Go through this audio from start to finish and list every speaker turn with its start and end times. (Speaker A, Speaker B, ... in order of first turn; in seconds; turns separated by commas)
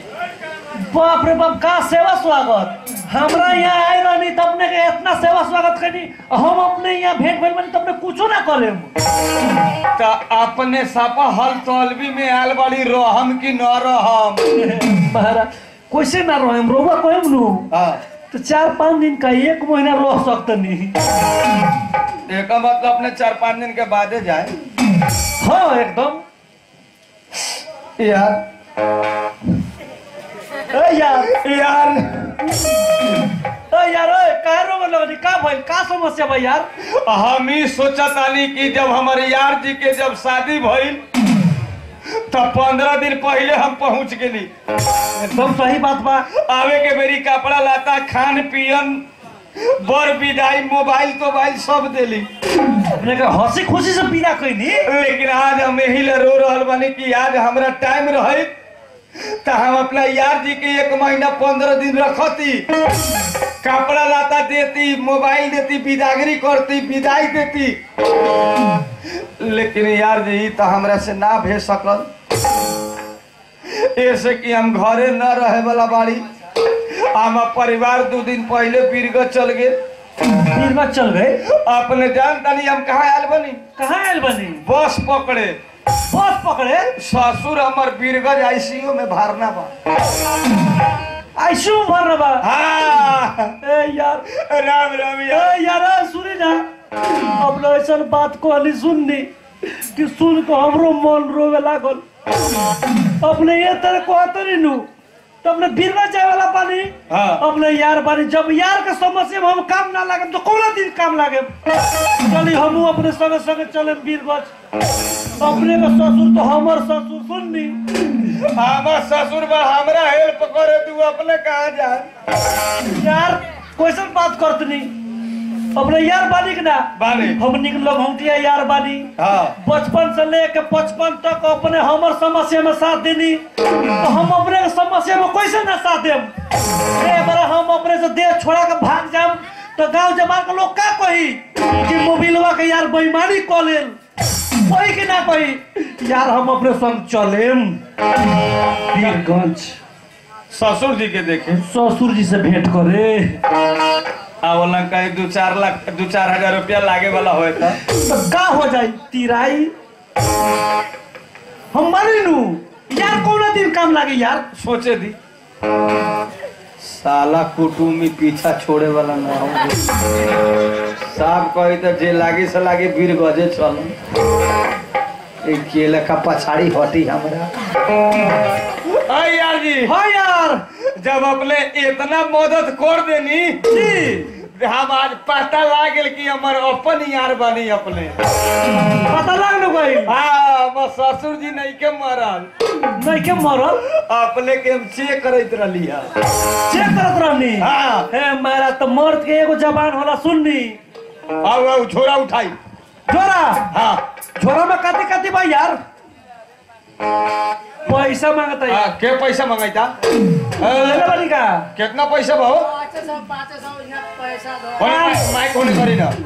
Speaker A: 0.8-8.9, Speaker B: 9.9-14.4, Speaker A: 14.5-17.7, Speaker B: 17.7-18.0, Speaker A: 18.3-21.0, Speaker B: 22.3-24.5, Speaker A: 25.4-26.2, Speaker B: 28.0-28.4, Speaker A: 30.7-31.3, Speaker B: 31.2-32.4, Speaker A: 33.7-36.7, Speaker B: 36.8-41.0, Speaker B: 42.1-44.5, Speaker A: 45.1-46.3, Speaker B: 46.3-49.0, Speaker B: 49.6-52.3, Speaker A: 52.9-54.9, Speaker B: 54.8-58.5, Speaker B: 59.2-62.6, Speaker B: 63.6-67.8, Speaker B: 69.1-72.1, Speaker B: 73.7-79.7, Speaker A: 80.5-81.4, Speaker B: 81.4-83.6, Speaker A: 83.8-84.6, Speaker B: 84.6-85.6, Speaker A: 86.1-86.9, Speaker B: 86.9-89.7, Speaker A: 91.4-92.4, Speaker B: 92.4-93.5, Speaker A: 93.6-94.2, Speaker B: 94.3-95.5, Speaker A: 95.3-96.6, Speaker A: 97.2-102.0, Speaker A: 103.2-104.9, Speaker A: 105.4-114.5, Speaker B: 107.1-107.4, Speaker A: 115.4-118.1, Speaker B: 118.3-122.1, Speaker A: 122.9-124.9, Speaker A: 125.7-133.4, Speaker B: 127.0-127.4, Speaker B: 129.2-129.6, Speaker A: 134.0-136.3, Speaker A: 136.9-144.0, Speaker A: 144.6-147.8, Speaker A: 148.9-149.8, Speaker B: 150.5-151.6, Speaker A: 151.6-153.4, Speaker B: 154.4-157.8, Speaker A: 157.9-159.7, Speaker A: 161.7-164.4, Speaker B: 164.5-165.2, Speaker B: 166.8-169.8, Speaker B: 171.1-174.0, Speaker B: 175.4-177.5, Speaker B: 178.9-179.9, Speaker A: 179.8-180.6, Speaker B: 180.9-183.7, Speaker A: 183.7-184.3, Speaker B: 184.4-188.2, Speaker A: 188.9-190.1, Speaker B: 190.0-192.5, Speaker A: 192.9-193.8, Speaker B: 193.8-196.1, Speaker A: 196.7-200.8, Speaker B: 197.6-198.1, Speaker B: 201.4-202.5, Speaker A: 203.1-203.7, Speaker B: 203.7-204.0, Speaker A: 204.3-205.8, Speaker A: 207.8-208.9, Speaker B: 208.7-209.9, Speaker B: 210.6-211.1, Speaker A: 210.6-211.7, Speaker B: 211.7-212.7, Speaker C: 212.6-215.2, Speaker B: 214.8-216.2